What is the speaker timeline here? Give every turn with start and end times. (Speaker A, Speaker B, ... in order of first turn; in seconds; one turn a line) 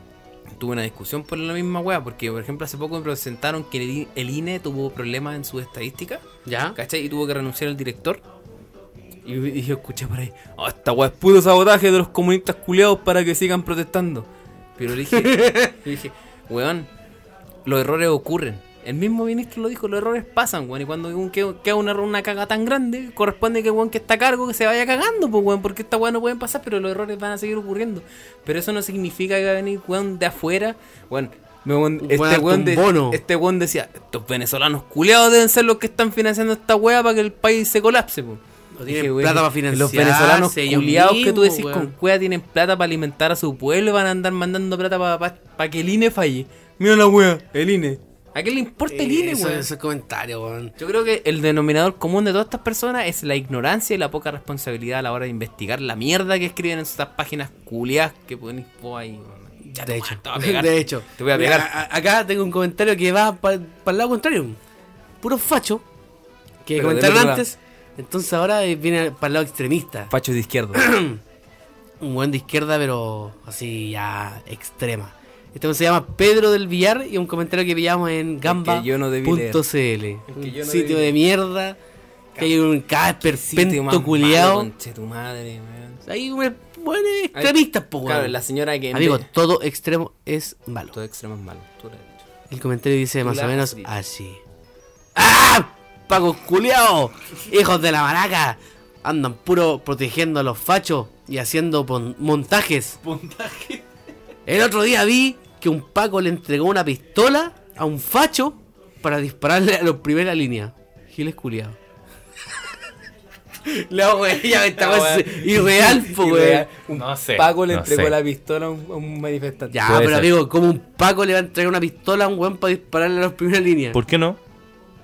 Speaker A: 0.6-8.2
Speaker B: 6.5-6.8
Speaker A: 9.2-16.9
Speaker B: 15.1-15.7
Speaker A: 17.6-49.7
Speaker B: 32.0-33.2
Speaker B: 38.7-41.9
Speaker B: 48.9-50.7
Speaker A: 50.8-61.7
Speaker B: 59.7-64.6
Speaker B: 65.2-65.8
Speaker B: 66.6-70.1
Speaker A: 66.7-67.5
Speaker A: 70.1-70.9
Speaker B: 70.7-71.2
Speaker B: 72.0-81.8
Speaker A: 78.4-79.6
Speaker A: 80.3-81.1
Speaker B: 82.4-84.7
Speaker A: 83.2-86.0
Speaker B: 86.0-88.3
Speaker A: 87.3-89.3
Speaker B: 88.9-91.0
Speaker A: 90.9-92.2
Speaker B: 92.5-94.4
Speaker A: 93.2-93.9
Speaker B: 95.1-103.0
Speaker C: 103.0-103.8
Speaker B: 104.5-111.8
Speaker B: 113.6-116.7
Speaker A: 114.7-119.8
Speaker C: 116.9-118.2
Speaker B: 119.7-124.0
Speaker C: 119.8-120.3
Speaker C: 123.9-124.4